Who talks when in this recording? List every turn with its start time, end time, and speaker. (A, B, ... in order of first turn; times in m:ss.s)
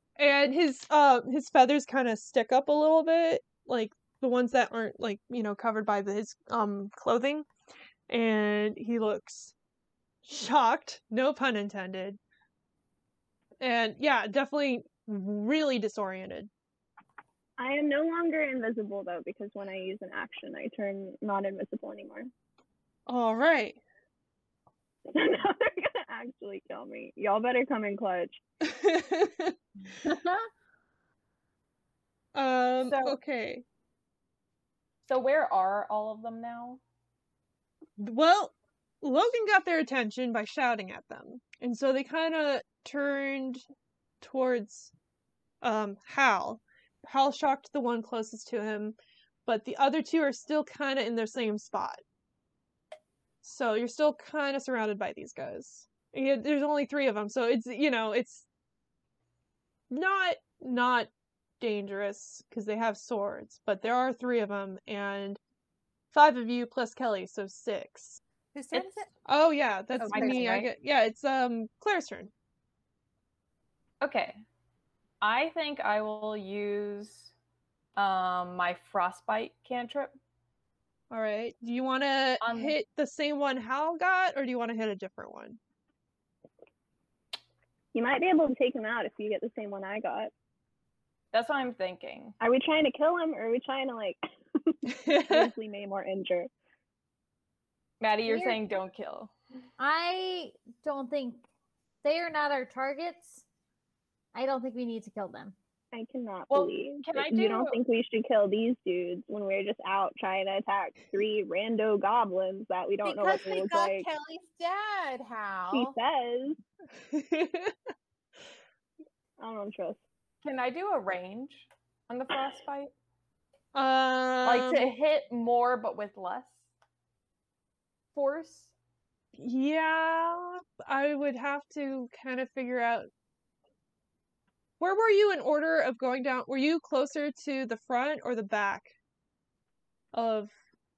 0:00.2-0:07.4 A
0:08.1-0:09.5 A
0:10.2-0:12.2 A
0:13.6-0:16.5 A
0:17.6-0:22.3 B
0:23.1-0:23.8 A
0:25.1-0:28.4 B
0:28.6-0:29.5 A
0:30.0-0:30.5 C
0:32.3-0:33.6 A
0:32.8-0:33.2 D
0:35.1-0:36.8 D
0:38.0-0:43.6 A
0:44.2-0:44.9 A
0:45.6-0:52.0 A
0:53.4-0:58.4 A
0:59.9-1:05.4 A
1:06.1-1:08.2 A
1:08.5-1:09.1 C
1:08.7-1:12.3 A
1:10.0-1:10.7 C
1:10.1-1:10.7 D
1:14.0-1:14.4 D
1:15.2-1:17.3 D
1:18.0-1:20.2 D
1:21.1-1:25.6 A
1:22.4-1:22.8 D
1:27.9-1:30.3 B
1:31.3-1:32.4 D
1:32.4-1:36.5 B
1:34.8-1:35.5 A
1:38.0-1:39.3 D
1:38.3-1:38.6 E
1:39.8-1:41.4 E
1:42.0-1:43.4 E
1:44.3-1:45.5 E
1:45.9-1:54.1 B
1:46.5-1:47.8 D
1:53.0-1:56.0 C
1:55.7-1:56.6 B
1:57.1-1:57.7 A
1:59.4-2:00.0 B
2:00.4-2:02.9 D
2:03.7-2:04.9 A
2:04.4-2:06.6 D
2:08.1-2:08.7 D
2:09.4-2:13.1 A
2:14.8-2:18.9 A
2:20.1-2:20.5 A